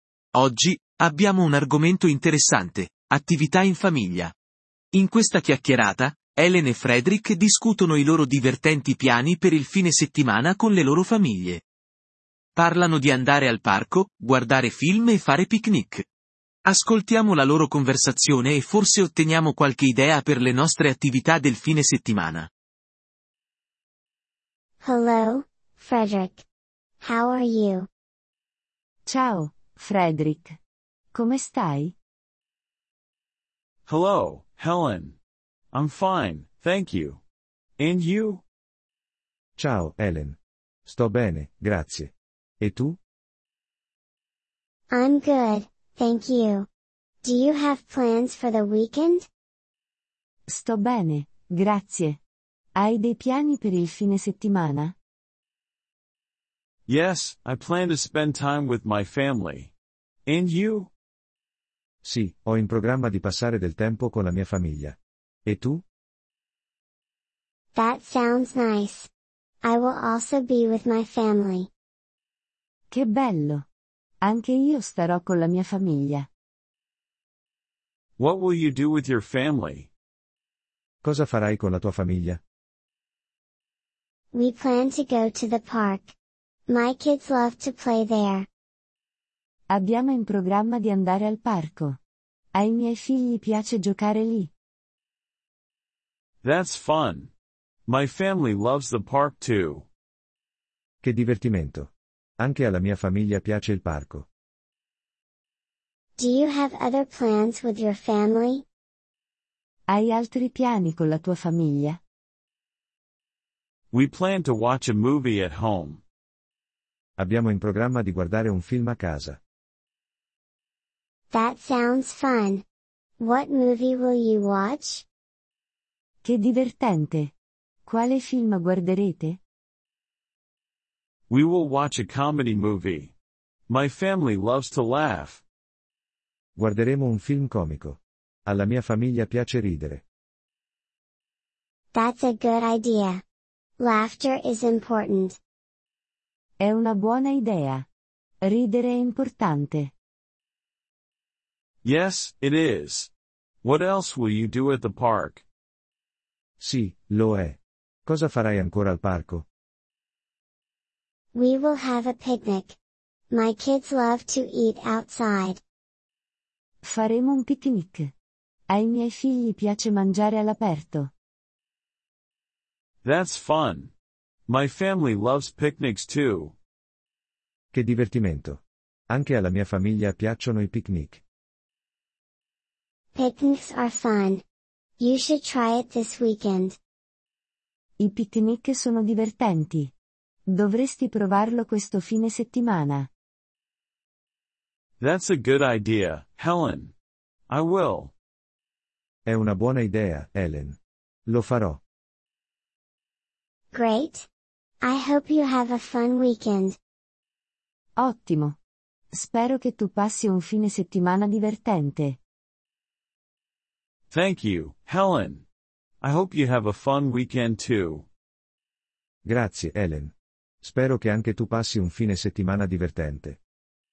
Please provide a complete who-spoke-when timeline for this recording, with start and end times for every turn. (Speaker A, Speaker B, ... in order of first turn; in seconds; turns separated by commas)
Speaker A: 0.3-4.3, Speaker A: 4.9-11.6, Speaker A: 12.6-16.0, Speaker A: 16.6-22.5, Speaker B: 24.8-26.4, Speaker B: 27.0-27.9, Speaker C: 29.1-30.6, Speaker C: 31.1-31.9, Speaker D: 33.9-35.1, Speaker D: 35.7-37.2, Speaker D: 37.8-38.4, Speaker E: 39.6-43.0, Speaker B: 44.9-46.7, Speaker B: 47.2-49.3, Speaker C: 50.5-52.2, Speaker C: 52.8-54.9, Speaker D: 56.9-59.7, Speaker D: 60.3-60.9, Speaker E: 62.0-65.8, Speaker B: 67.7-69.1, Speaker B: 69.6-71.7, Speaker C: 72.9-73.6, Speaker C: 74.2-76.3, Speaker D: 78.2-79.9, Speaker E: 81.0-82.4, Speaker B: 84.3-86.1, Speaker B: 86.7-88.5, Speaker C: 89.7-92.0, Speaker C: 92.5-94.5, Speaker D: 96.4-97.3, Speaker D: 97.9-99.8, Speaker E: 101.0-104.2, Speaker B: 106.2-108.7, Speaker C: 109.9-112.0, Speaker D: 113.9-116.0, Speaker E: 117.2-119.4, Speaker B: 121.3-122.6, Speaker B: 123.2-125.0, Speaker C: 126.2-127.3, Speaker C: 127.8-129.4, Speaker D: 131.3-133.1, Speaker D: 133.7-135.4, Speaker E: 136.6-140.0, Speaker B: 141.9-143.2, Speaker B: 143.8-145.4, Speaker C: 146.6-147.8, Speaker C: 148.4-149.9, Speaker D: 151.8-153.1, Speaker D: 153.6-155.4, Speaker E: 156.6-159.4, Speaker B: 161.3-162.8, Speaker B: 163.3-165.6, Speaker C: 166.8-168.1, Speaker C: 168.7-171.1, Speaker D: 173.0-173.9, Speaker D: 174.5-176.5, Speaker E: 177.7-181.2, Speaker B: 183.1-184.4, Speaker B: 185.0-186.8, Speaker C: 188.0-189.9, Speaker C: 190.5-193.1, Speaker D: 195.0-196.9, Speaker D: 197.5-198.1, Speaker E: 199.3-201.8, Speaker B: 203.7-204.3, Speaker B: 204.8-206.8, Speaker C: 208.0-208.6, Speaker C: 209.1-212.2, Speaker D: 214.1-215.4, Speaker D: 216.0-218.1, Speaker E: 219.2-223.4